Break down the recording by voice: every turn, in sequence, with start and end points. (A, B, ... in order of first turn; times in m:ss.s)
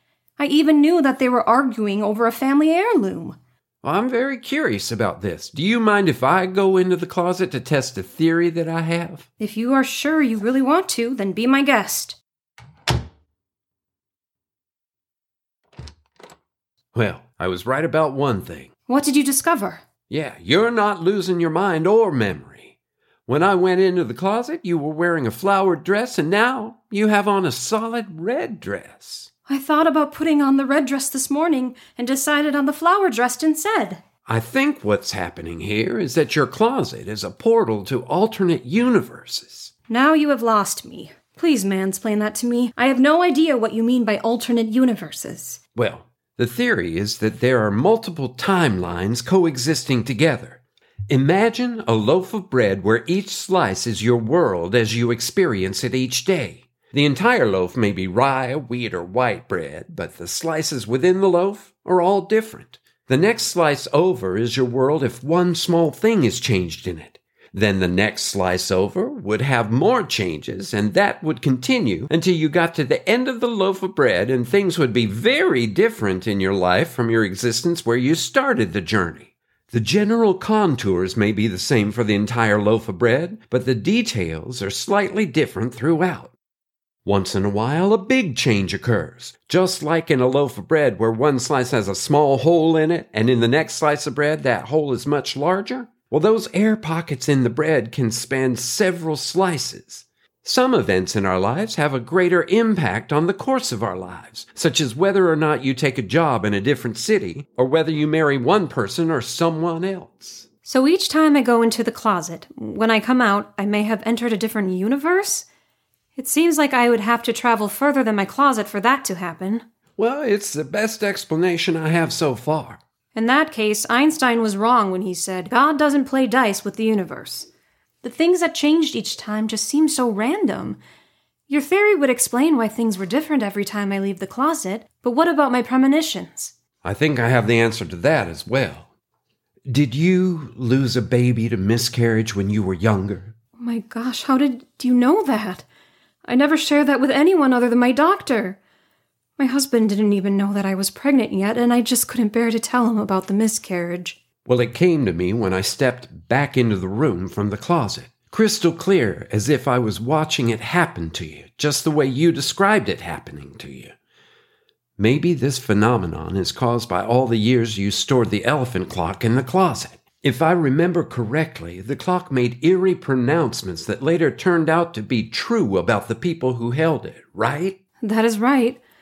0:00.4-0:03.4 A
0:03.8-0:09.3 B
0:09.4-0:12.2 A
0:16.9-0:18.7 B
0:18.9-0:19.8 A
0:20.1-0:22.7 B
0:23.3-0:29.3 B
0:29.5-0:34.0 A
0:34.2-0:39.7 B
0:39.9-0:45.6 A
0:45.8-1:26.3 B
1:27.0-1:50.4 B
1:50.6-1:55.4 A
1:56.1-1:59.6 A
2:00.0-2:02.8 B
2:03.1-2:07.5 A
2:08.0-2:10.8 A
2:11.5-2:16.5 A
2:16.8-2:18.9 B
2:19.7-2:23.3 B
2:23.6-2:25.6 A
2:26.2-2:28.6 A
2:29.4-2:34.2 A
2:34.4-2:43.9 B
2:45.0-2:57.8 B
2:58.0-2:58.8 A